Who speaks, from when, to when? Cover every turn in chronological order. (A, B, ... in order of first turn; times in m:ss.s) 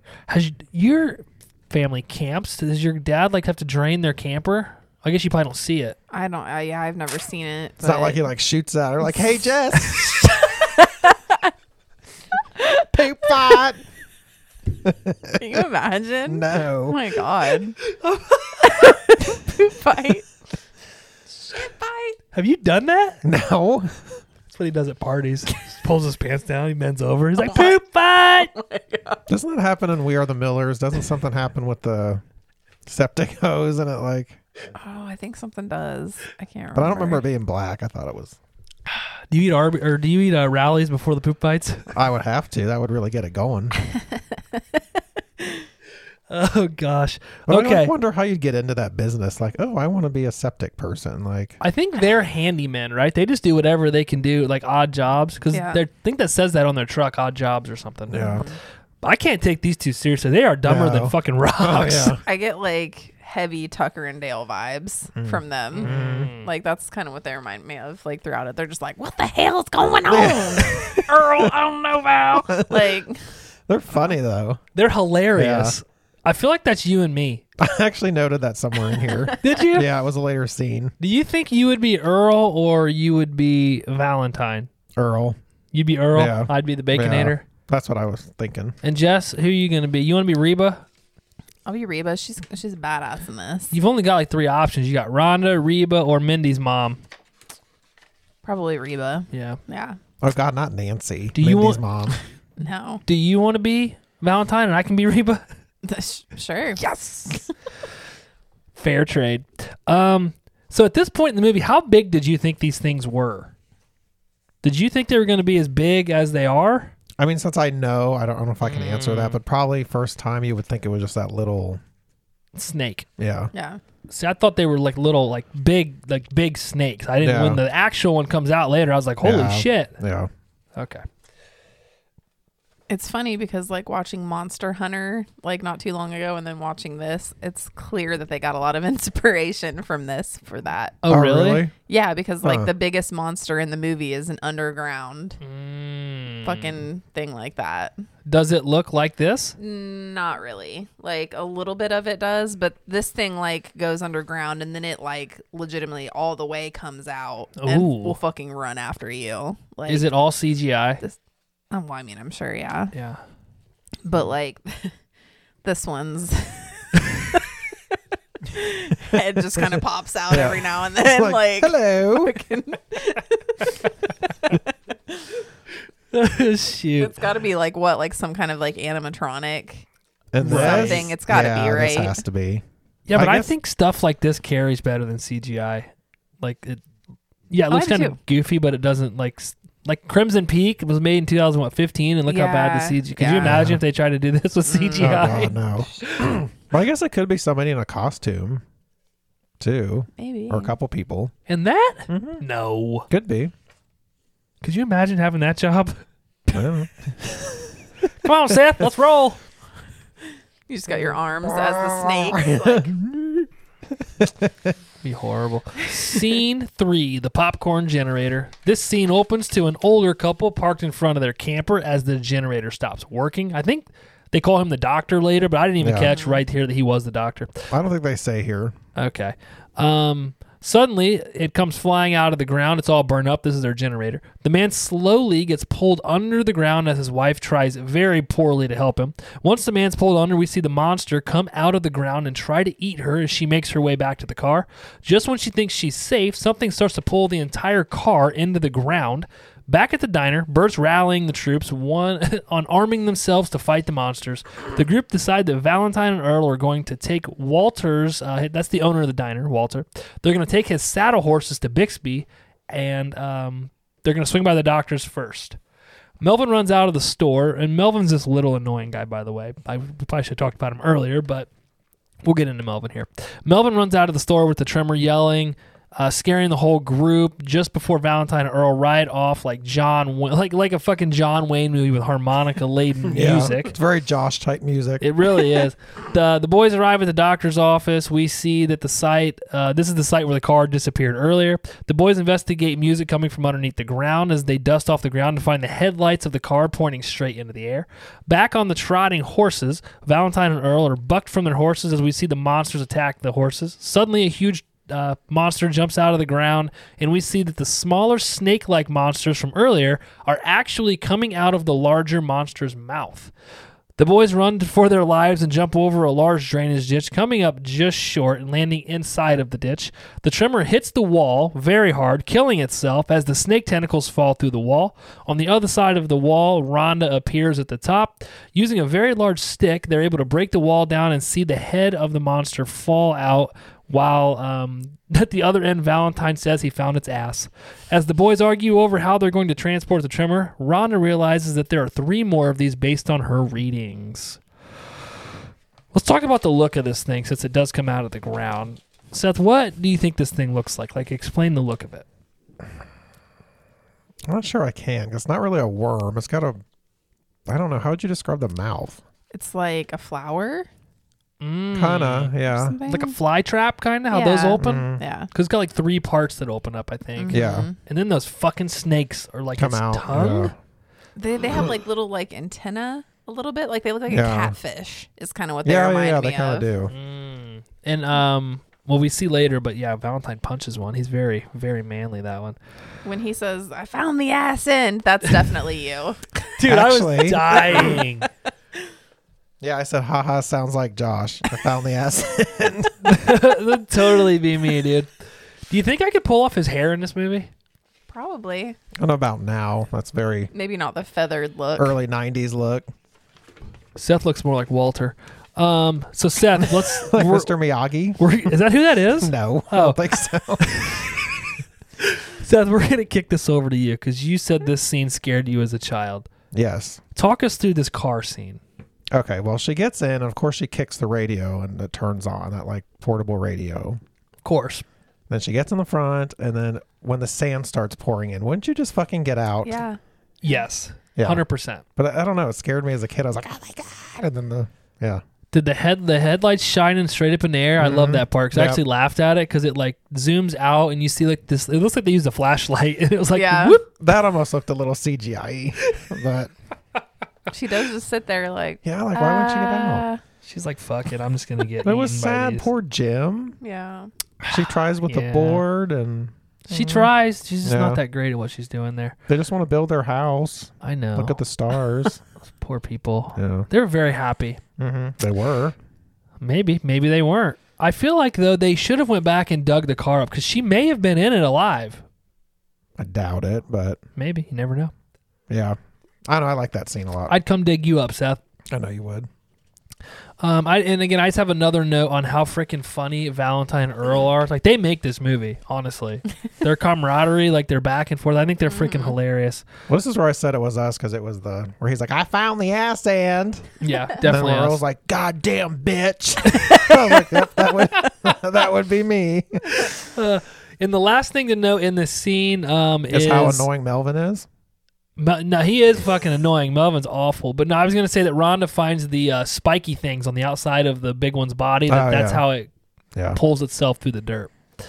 0:00.3-0:06.0 A
0:06.1-0:08.2 B
0:07.8-0:10.3 C
0:09.1-0:11.5 B
0:12.6-0:13.4 B
0:12.9-0:13.8 C
0:14.8-0:15.6 C
0:15.4-0:17.8 B
0:16.3-0:17.2 C
0:17.9-0:19.0 A
0:18.6-0:20.3 B
0:21.5-0:22.2 B
0:22.3-0:23.2 A
0:23.2-0:24.1 C
0:24.5-0:28.5 A
0:27.4-0:27.7 B
0:28.5-0:29.2 B
0:29.3-0:32.2 C
0:32.9-0:34.4 C
0:34.8-0:37.2 B
0:36.8-0:38.4 C
0:39.3-0:42.0 A
0:41.9-0:43.8 C
0:43.9-0:44.8 B
0:45.4-0:45.7 B
0:46.3-0:47.9 A
0:47.5-0:51.6 C
0:51.6-0:58.5 A
0:55.5-0:55.8 B
0:58.1-0:58.4 C
0:58.2-0:58.6 B
0:59.0-1:02.2 A
1:00.6-1:02.2 C
1:02.2-1:13.2 B
1:05.2-1:06.3 C
1:05.7-1:06.5 A
1:10.1-1:11.5 C
1:12.3-1:13.0 C
1:13.7-1:14.6 C
1:14.8-1:17.4 A
1:15.4-1:15.8 C
1:17.6-1:20.9 C
1:18.9-1:19.5 B
1:19.4-1:19.9 A
1:21.0-1:24.7 A
1:25.0-1:25.4 C
1:25.7-1:27.4 A
1:26.1-1:28.8 C
1:28.8-1:30.9 A
1:31.7-1:33.7 B
1:33.7-1:37.0 A
1:38.4-1:40.0 B
1:39.3-1:39.6 A
1:40.2-1:42.2 C
1:41.3-1:41.8 A
1:42.6-1:43.0 B
1:43.1-1:45.4 A
1:45.8-1:46.8 B
1:46.8-1:47.5 A
1:48.8-1:53.5 A
1:54.6-1:56.9 A
1:57.2-2:01.8 C
1:58.7-1:59.4 A
2:02.6-2:03.1 A
2:03.2-2:03.5 C
2:03.5-2:03.8 B
2:04.1-2:10.0 A
2:07.2-2:07.6 C
2:09.2-2:10.3 C
2:10.8-2:11.0 A
2:12.9-2:21.0 B
2:21.0-2:21.7 A
2:21.1-2:21.7 C
2:21.9-2:25.4 B
2:22.4-2:22.7 C
2:25.4-2:26.8 A
2:26.4-2:28.0 B
2:28.3-2:29.6 A
2:29.6-2:40.1 B
2:37.6-2:38.2 A
2:39.9-2:41.0 A
2:41.7-2:42.9 B
2:42.9-2:43.2 A
2:44.0-2:44.9 B
2:45.6-2:47.4 B
2:48.5-2:53.8 B
2:49.1-2:52.4 C
2:56.1-2:57.2 A
2:57.0-2:59.9 B
3:00.3-3:03.5 C
3:00.4-3:01.1 A
3:00.5-3:02.2 B
3:03.1-3:06.8 A
3:07.5-3:16.3 A
3:07.7-3:08.2 B
3:12.3-3:13.6 B
3:13.4-3:13.8 C
3:14.7-3:16.1 B
3:15.0-3:18.6 C
3:19.6-3:21.3 C
3:20.2-3:20.7 B
3:21.5-3:23.1 A
3:22.1-3:22.4 C
3:23.1-3:23.5 C
3:24.6-3:26.6 A
3:26.5-3:27.6 C
3:28.2-3:29.4 A
3:30.7-3:32.9 B
3:31.4-3:34.7 C
3:35.0-3:47.6 A
3:45.8-3:46.1 C
3:46.0-3:46.4 B
3:47.7-3:48.8 C
3:49.0-4:25.6 A
4:26.2-4:31.5 A
4:32.2-4:43.8 A
4:43.1-4:45.1 C
4:45.0-5:13.3 A
5:14.0-5:44.4 A
5:45.9-5:52.1 A
5:54.3-5:56.6 C
5:57.5-5:59.0 C
5:59.3-6:00.7 B
6:01.4-6:10.5 A
6:01.7-6:02.8 C
6:02.5-6:03.2 B
6:04.1-6:05.3 B
6:04.6-6:05.0 C
6:07.2-6:07.8 B
6:07.3-6:07.7 C
6:09.6-6:10.6 C
6:11.2-6:16.7 B
6:14.1-6:14.6 C
6:15.6-6:16.9 C
6:16.9-6:22.6 A
6:23.0-6:26.4 B
6:26.6-6:28.3 A
6:26.6-6:27.9 C
6:27.6-6:28.1 B
6:29.6-6:33.3 C
6:33.0-6:35.1 A
6:35.7-6:37.5 A
6:38.1-6:38.8 B
6:39.0-6:40.5 C
6:40.5-6:41.9 B
6:41.8-6:42.9 C
6:44.0-6:47.5 A
6:46.6-6:48.5 C
6:48.2-6:50.0 A
6:49.2-6:50.9 C
6:50.6-6:51.4 A
6:52.0-6:56.3 A
6:56.5-6:57.0 C
6:57.2-6:58.6 A
6:59.1-7:04.0 C
7:04.4-7:04.8 A
7:05.3-7:09.8 C
7:09.6-7:10.6 B
7:10.4-7:11.8 A
7:11.2-7:11.4 C
7:12.0-7:15.2 C
7:15.5-7:23.8 A
7:17.8-7:18.8 C
7:23.3-7:23.8 B
7:24.0-7:26.5 C
7:25.8-7:26.1 A
7:27.5-7:30.2 B
7:28.8-7:30.0 C
7:30.4-7:32.7 A
7:31.8-7:33.6 C
7:33.6-7:34.1 B
7:34.4-7:35.6 A
7:34.5-7:37.1 C
7:36.7-7:39.2 A
7:37.6-7:38.0 C
7:39.3-7:42.2 C
7:40.8-7:41.4 A
7:42.6-7:44.6 A
7:43.4-7:43.7 C
7:44.8-7:45.8 C
7:46.4-7:52.0 A
7:53.0-7:54.0 C
7:54.2-7:54.9 A
7:55.5-7:55.8 C
7:56.3-7:57.4 C
7:57.3-7:58.4 A
7:58.7-7:59.3 C
8:00.4-8:09.7 A
8:08.7-8:09.2 B
8:09.9-8:19.8 C
8:13.8-8:14.8 A
8:16.5-8:16.9 A
8:19.7-8:23.7 A
8:23.1-8:24.5 C
8:25.2-8:32.7 A
8:31.9-8:32.4 C
8:33.3-8:34.5 A